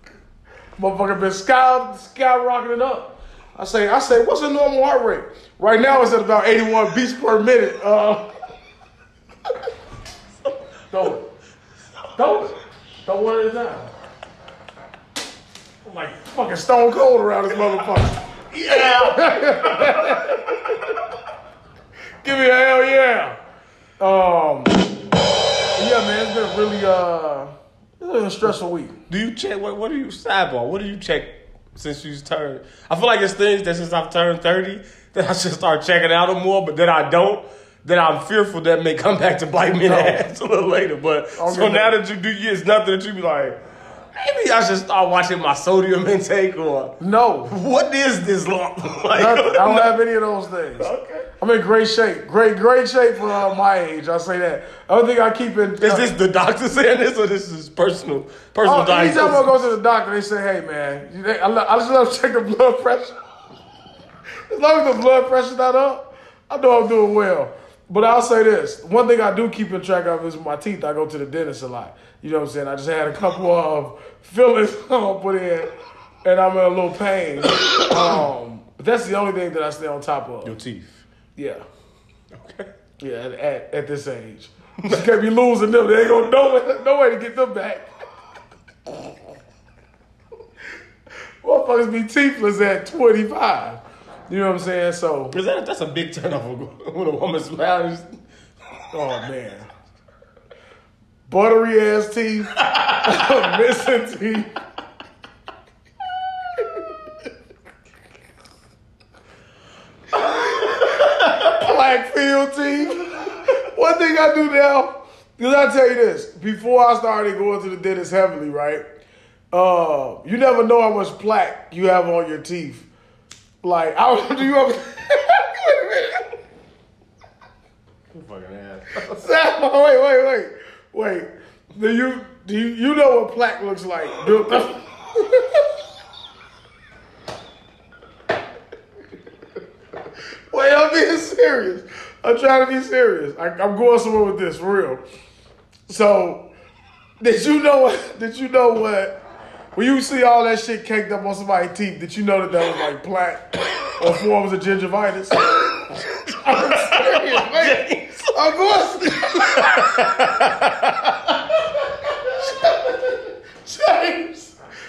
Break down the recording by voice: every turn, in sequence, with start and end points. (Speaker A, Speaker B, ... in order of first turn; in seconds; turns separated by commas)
Speaker A: 0.8-8.3, Speaker B: 10.4-11.1, Speaker A: 10.9-11.2, Speaker A: 12.2-13.9, Speaker A: 15.8-20.6, Speaker B: 18.5-20.6, Speaker A: 22.2-23.4, Speaker A: 24.0-24.9, Speaker A: 25.7-29.0, Speaker B: 29.1-43.6, Speaker A: 39.8-40.2, Speaker A: 41.4-41.9, Speaker B: 44.1-47.0, Speaker A: 47.0-47.5, Speaker B: 47.5-50.0, Speaker A: 49.1-56.1, Speaker B: 50.8-51.3, Speaker B: 55.8-59.5, Speaker A: 58.6-63.1, Speaker A: 64.5-75.7, Speaker A: 76.2-80.5, Speaker B: 80.4-81.0, Speaker A: 81.3-81.6, Speaker B: 82.3-82.7, Speaker A: 83.0-87.9, Speaker B: 84.8-85.1, Speaker A: 91.4-95.4, Speaker B: 95.3-98.2, Speaker A: 98.9-99.7, Speaker A: 101.3-104.5, Speaker B: 102.6-103.4, Speaker A: 111.4-118.8, Speaker A: 119.5-122.9, Speaker A: 123.6-126.3, Speaker B: 128.1-129.3, Speaker A: 129.0-134.8, Speaker A: 140.5-145.0, Speaker A: 145.9-146.5, Speaker A: 147.2-149.2, Speaker A: 149.7-155.6, Speaker B: 155.5-161.5, Speaker A: 156.4-159.8, Speaker B: 162.3-164.5